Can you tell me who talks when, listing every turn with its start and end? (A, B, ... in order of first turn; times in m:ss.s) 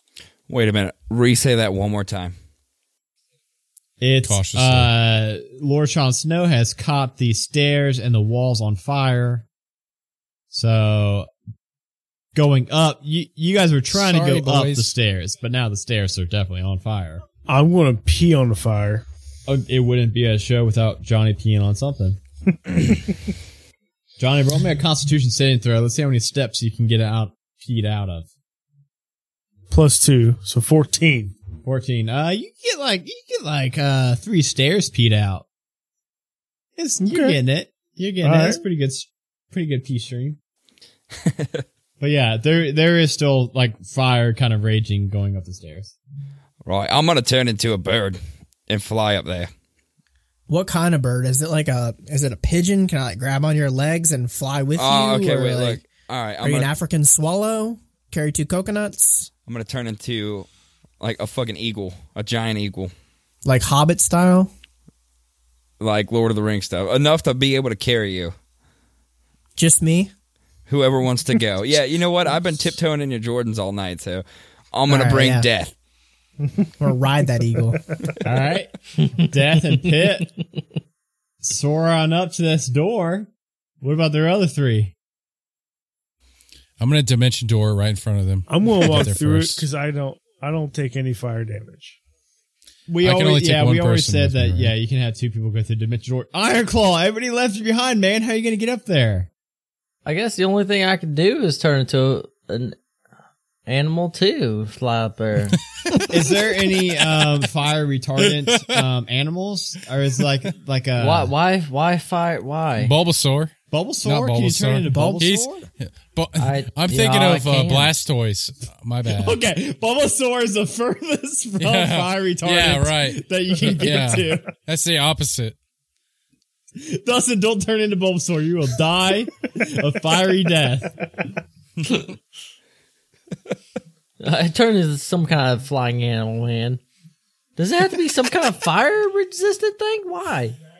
0:00.5-0:02.4 A
0:04.0-0:09.4 B
0:04.2-0:04.9 C
0:10.5-0:11.3 B
0:12.3-0:17.2 B
0:13.9-0:14.9 C
0:17.5-0:19.0 D
0:19.5-0:22.2 B
0:24.2-0:28.2 B
0:29.7-0:31.4 D
0:31.6-0:35.4 B
0:36.8-0:40.4 B
0:37.0-0:37.4 D
0:38.2-0:38.6 D
0:41.1-0:41.6 A
0:42.0-0:45.9 B
0:46.6-0:49.5 A
0:50.5-0:55.8 E
0:54.8-0:56.7 A
0:56.4-0:59.3 E
0:59.5-1:00.5 A
1:01.0-1:02.9 A
1:03.4-1:04.5 E
1:05.8-1:08.3 A
1:09.6-1:10.1 E
1:10.7-1:15.7 A
1:14.9-1:15.5 E
1:16.8-1:17.8 E
1:18.2-1:20.4 B
1:21.4-1:23.3 B
1:23.8-1:24.9 B
1:26.8-1:29.6 C
1:28.5-1:32.0 D
1:32.9-1:39.3 B
1:33.0-1:34.7 C
1:40.0-1:42.8 F
1:43.6-1:45.6 F
1:45.9-1:46.3 C
1:46.1-1:51.3 B
1:48.3-1:48.7 C
1:51.0-1:52.9 F
1:52.8-1:59.4 C
1:53.7-1:55.7 B
1:54.9-1:55.3 E
1:56.4-1:57.9 F
1:59.1-2:04.5 B
2:01.6-2:05.6 C
2:06.8-2:11.0 B
2:14.2-2:16.8 F
2:17.6-2:20.6 F